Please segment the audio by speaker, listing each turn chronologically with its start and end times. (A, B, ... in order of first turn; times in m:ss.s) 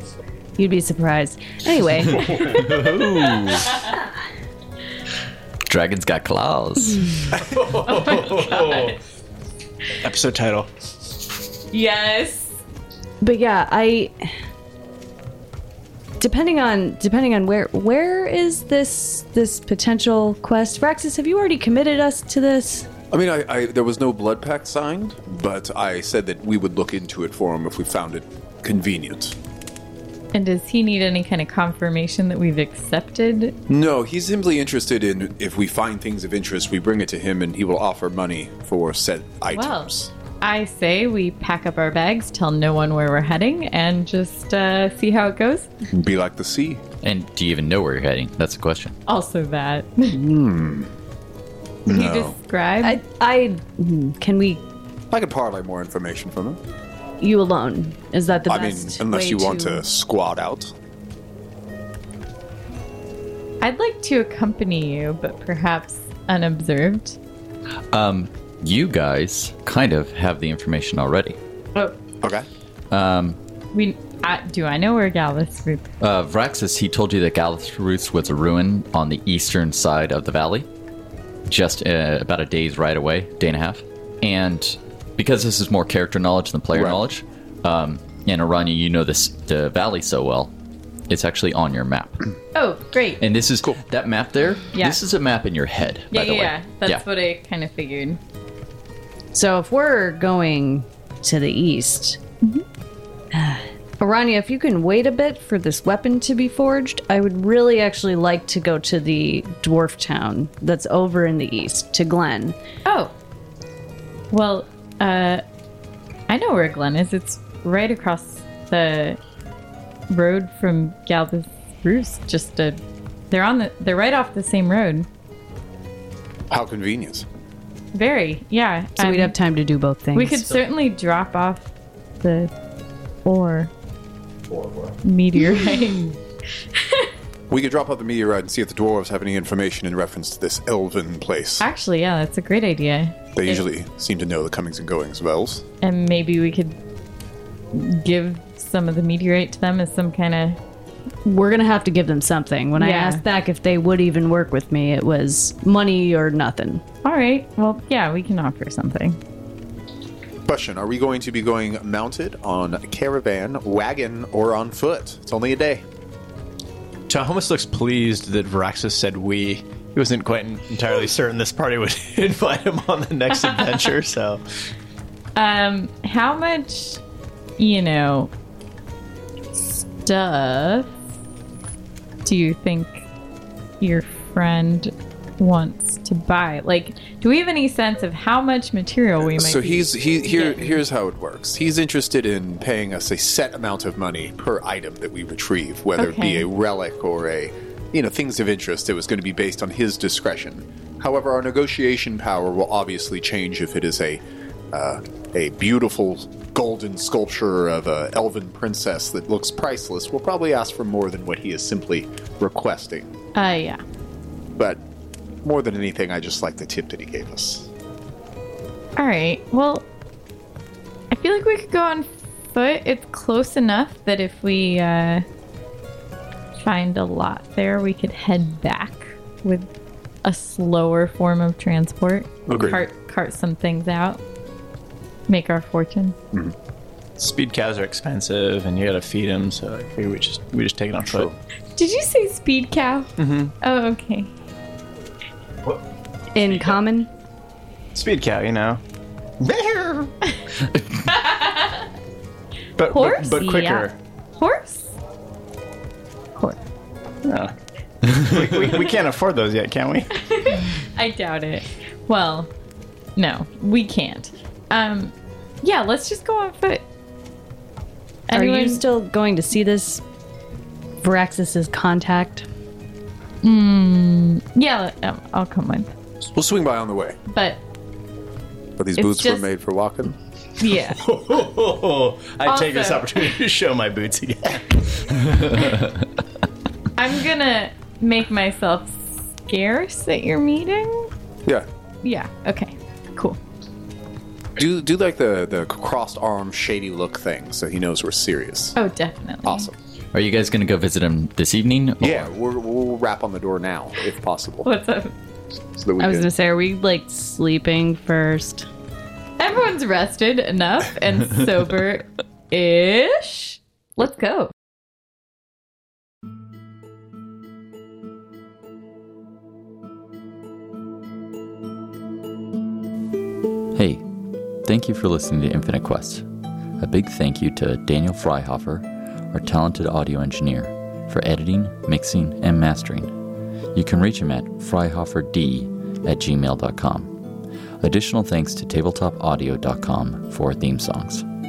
0:00.6-0:02.3 A
0:02.4-0:03.7 B
0:02.5-0:03.9 C
0:05.6-0:07.4 B
0:07.3-0:09.0 D
0:07.9-0:09.0 C
0:10.0-0:10.7 D
0:11.7-0:12.6 C
0:13.2-0:14.3 A
0:16.2-0:22.9 A
0:23.1-0:29.3 E
0:30.3-0:33.6 C
0:33.7-0:40.1 E
0:39.5-0:39.9 C
0:40.4-0:45.7 C
0:45.9-0:46.8 E
0:47.0-0:48.9 B
0:49.1-0:50.2 C
0:50.1-0:50.9 E
0:51.8-0:52.4 E
0:51.9-0:53.0 C
0:52.8-0:54.6 A
0:55.1-0:56.6 E
0:57.2-0:59.8 A
0:58.5-1:00.7 E
1:03.6-1:07.2 C
1:07.9-1:11.4 B
1:12.2-1:12.5 E
1:12.9-1:13.4 B
1:13.7-1:15.9 C
1:16.0-1:20.7 B
1:21.5-1:30.5 B
1:26.7-1:27.0 E
1:31.1-1:32.3 B
1:32.5-1:33.2 C
1:33.2-1:37.0 B
1:36.1-1:38.2 C
1:39.3-1:42.2 A
1:43.3-1:52.6 A
1:52.8-1:53.1 C
1:54.3-1:55.4 C
1:56.3-1:59.2 C
2:00.1-2:02.8 C
2:03.3-2:05.1 C
2:06.5-2:07.2 E
2:07.9-2:09.3 C
2:09.0-2:10.6 A
2:10.1-2:11.7 C
2:12.2-2:12.5 C
2:13.2-2:13.7 C
2:14.5-2:14.9 E
2:15.0-2:16.2 C
2:16.8-2:17.1 C
2:17.5-2:21.7 E
2:21.6-2:23.6 C
2:23.3-2:25.6 E
2:25.8-2:26.8 C
2:27.7-2:30.6 C
2:31.2-2:36.8 A
2:32.8-2:33.2 C
2:37.0-2:39.2 C
2:40.4-2:45.8 E
2:47.1-2:54.4 D
2:53.3-2:53.9 C
2:55.3-2:57.0 C
2:57.6-2:58.3 C
2:59.6-3:00.9 C
3:02.2-3:03.1 C
3:03.8-3:10.8 C
3:09.2-3:24.2 E
3:16.0-3:16.5 C
3:24.7-3:33.1 E
3:33.3-3:33.8 C
3:34.6-3:34.8 E
3:35.4-3:37.7 E
3:39.0-3:39.8 C
3:41.1-3:45.2 C
3:46.6-3:49.7 C
3:50.2-3:54.2 C
3:52.5-3:52.8 E
3:55.3-3:56.2 C
3:57.2-4:01.3 D
4:01.1-4:01.4 E
4:01.8-4:04.3 C
4:03.2-4:03.5 D
4:06.3-4:07.1 A
4:06.5-4:06.8 D
4:07.9-4:08.8 D
4:09.4-4:10.1 D
4:11.1-4:11.8 C
4:12.8-4:14.0 D
4:12.9-4:14.9 C
4:17.2-4:17.5 D
4:18.0-4:20.1 D
4:20.2-4:22.5 C
4:23.2-4:26.8 C
4:28.3-4:28.8 C
4:28.3-4:30.0 A
4:31.0-4:32.4 A
4:33.4-4:35.9 C
4:36.3-4:37.2 E
4:37.3-4:37.6 C
4:38.8-4:40.2 E
4:39.0-4:39.4 C
4:40.6-4:41.0 C
4:41.0-4:45.2 D
4:42.4-4:43.0 C
4:45.3-4:45.8 B
4:47.0-4:51.1 C
4:52.0-4:53.4 C
4:54.6-4:58.8 E
4:58.8-4:59.7 C
4:59.4-4:59.7 E
5:00.1-5:02.3 B
5:02.0-5:04.7 E
5:04.6-5:05.1 C
5:05.8-5:06.3 E
5:06.0-5:08.7 A
5:09.4-5:14.5 C
5:23.7-5:24.0 B
5:24.6-5:26.2 B
5:26.8-5:33.1 B
5:33.7-5:37.1 B
5:37.8-5:41.2 B